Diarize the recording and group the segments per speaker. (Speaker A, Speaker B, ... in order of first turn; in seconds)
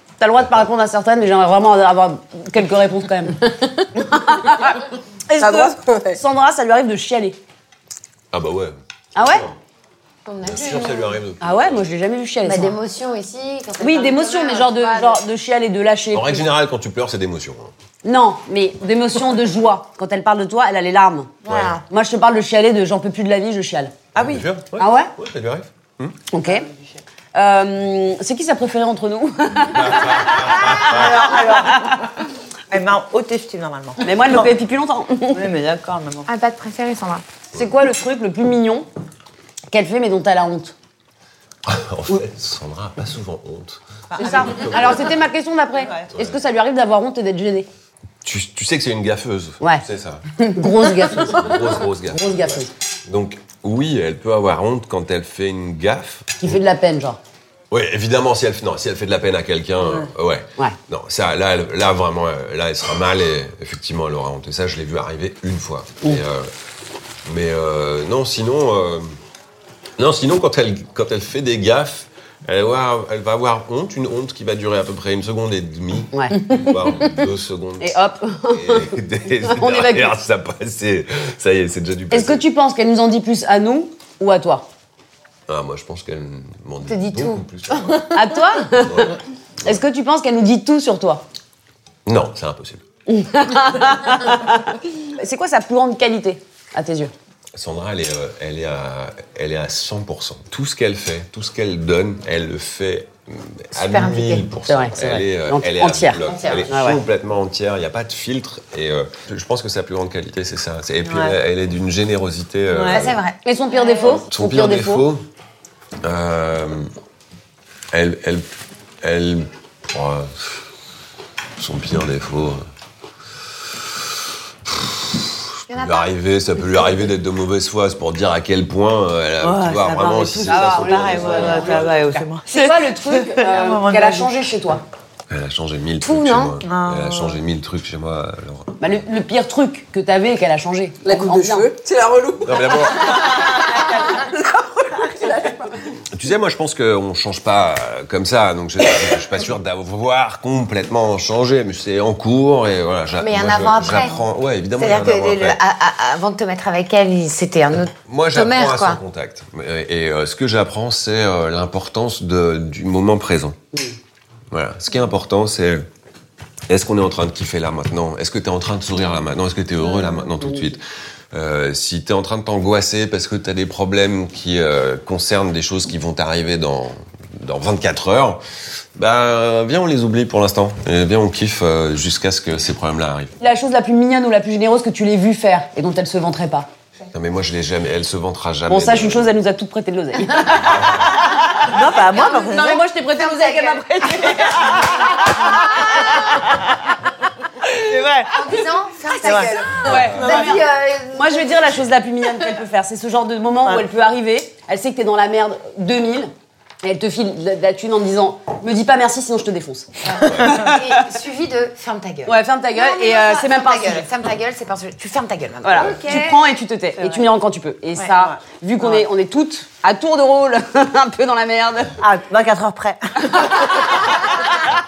Speaker A: 0.2-7.4, 9.1-9.4, 11.4-12.8, 13.8-16.5, 18.0-21.4, 21.9-23.9, 24.8-25.1, 26.3-26.6, 27.3-31.9, 34.0-35.4, 37.5-38.9, 39.7-40.7, 44.2-47.7, 50.4-52.7, 56.4-57.2, 76.1-77.1, 77.8-80.2, 82.1-84.7, 88.1-91.2, 93.1-97.1, 104.7-107.0, 113.4-115.1, 130.4-134.8, 138.8-141.7, 169.8-170.7, 183.4-186.7, 188.7-190.7, 192.1-194.4, 199.8-200.6, 201.1-209.9, 210.4-211.0, 212.2-214.1, 215.6-222.0
Speaker B: 5.4-6.2, 141.0-145.8
Speaker C: 8.3-9.5, 10.4-11.8, 16.1-17.7, 21.4-21.8, 24.1-26.2, 29.7-31.3, 41.6-43.8, 44.3-45.0, 46.1-46.4, 48.2-50.2, 51.2-56.6, 57.7-66.5, 67.2-69.2, 70.0-78.0, 78.5-82.4, 85.5-88.0, 88.7-89.8, 92.0-92.8, 97.5-113.2, 114.2-115.2, 116.0-116.9, 117.9-118.5, 119.0-120.5, 121.6-122.6, 124.7-132.0, 135.3-138.7, 142.4-143.3, 146.1-155.6, 158.1-163.6, 164.5-165.8, 166.7-178.4, 178.9-183.3, 187.1-189.3, 190.6-191.3, 199.8-200.4
Speaker D: 10.2-11.2, 12.4-15.2, 21.4-21.8, 36.3-37.2, 86.8-88.0, 103.7-104.5, 106.3-106.6, 112.9-114.2, 125.7-127.1, 136.0-136.6, 153.2-154.2, 154.8-159.0, 192.4-195.4, 198.3-201.8, 210.0-216.4
Speaker E: 30.6-32.0, 32.7-34.5, 35.3-36.3, 44.1-45.1, 45.7-46.1, 111.0-111.3, 112.7-113.1, 129.4-134.5, 136.6-137.4, 143.3-144.1, 191.6-192.9, 194.0-196.8, 197.7-198.5, 199.2-199.6, 200.2-200.6, 218.1-218.4, 222.0-224.7